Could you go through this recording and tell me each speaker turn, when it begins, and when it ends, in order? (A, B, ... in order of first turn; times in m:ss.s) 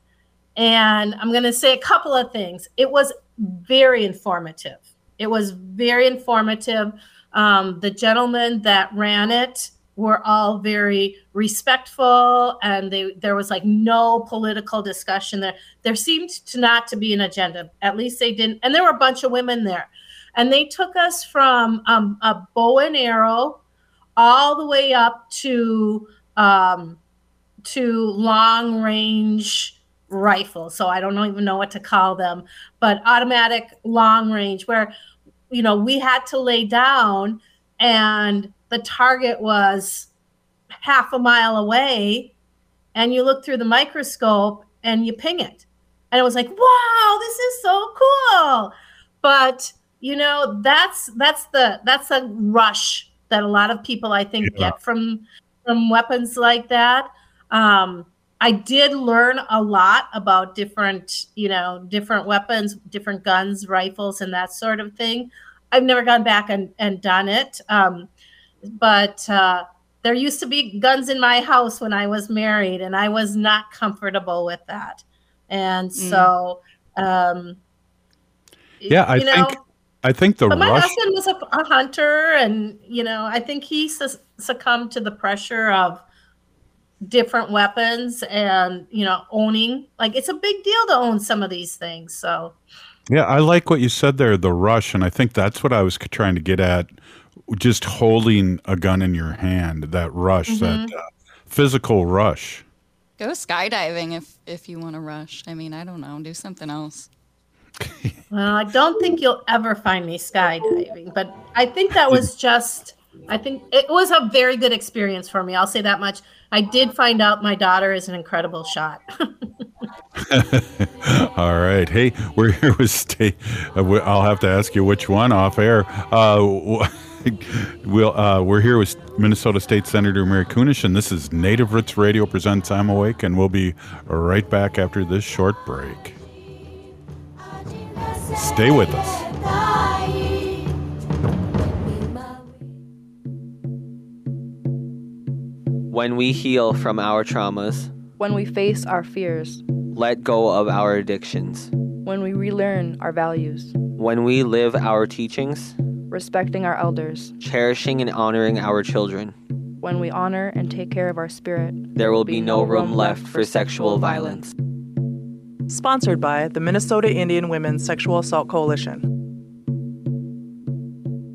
0:00.6-0:23.6 A
0:24.2-0:27.0 A
0:27.6-0:34.9 A
0:35.5-0:40.1 A
0:40.8-0:42.3 A
0:42.9-1:08.1 A
0:54.4-0:54.7 B
1:08.8-1:17.6 A
1:15.9-1:16.3 C
1:18.8-1:19.6 A
1:18.9-1:21.0 B
1:20.5-1:26.0 A
1:27.0-1:32.6 A
1:33.1-1:36.9 B
1:37.5-1:42.6 B
1:40.5-1:40.9 A
1:43.2-1:47.1 C
1:47.8-1:48.2 B
1:48.3-1:59.0 A
2:00.2-2:16.2 B
2:18.3-2:19.3 B
2:25.9-2:27.9 D
2:28.2-2:29.6 E
2:29.9-2:31.7 D
2:32.0-2:33.8 E
2:33.9-2:35.7 D
2:36.1-2:37.4 E
2:37.4-2:39.4 D
2:39.8-2:44.5 E
2:42.0-2:44.5 D
2:45.7-2:49.1 F